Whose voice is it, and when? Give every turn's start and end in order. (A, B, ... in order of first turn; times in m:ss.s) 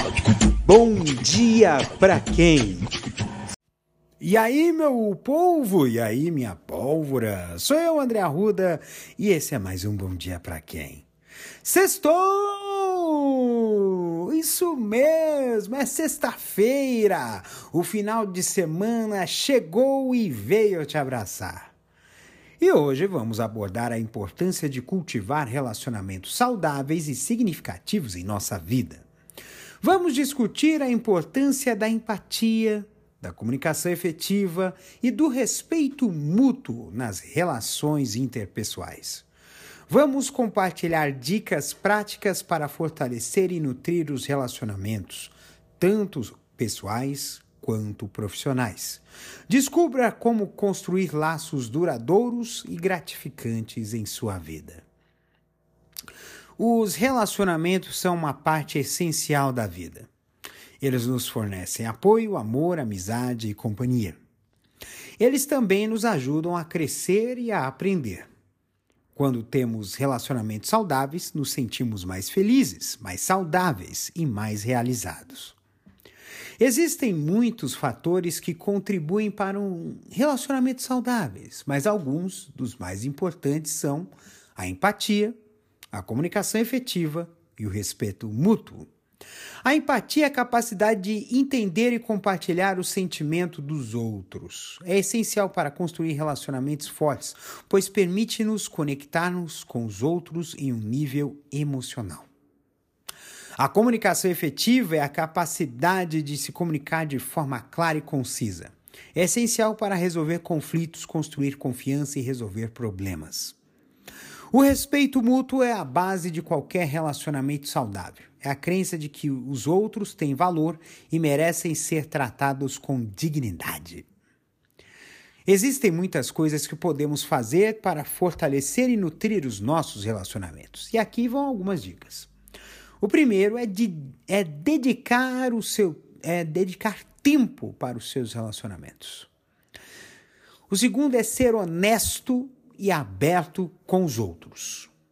0:00.6-0:02.9 A
0:04.2-0:11.1 A
0:11.6-0:21.7 A
0:22.6-0:29.1 A
0:29.8-0:39.3 A
0:39.9-0:54.8 A
0:56.6-1:00.1 A
1:00.8-1:04.2 A
1:05.2-1:08.3 A
1:09.1-1:15.6 A
1:16.6-1:25.4 A
1:25.9-1:28.9 A
1:29.6-1:42.3 A
1:43.6-1:53.6 A
1:54.5-2:04.1 A
2:05.5-2:12.3 A
2:13.0-2:19.3 A
2:20.7-2:24.9 A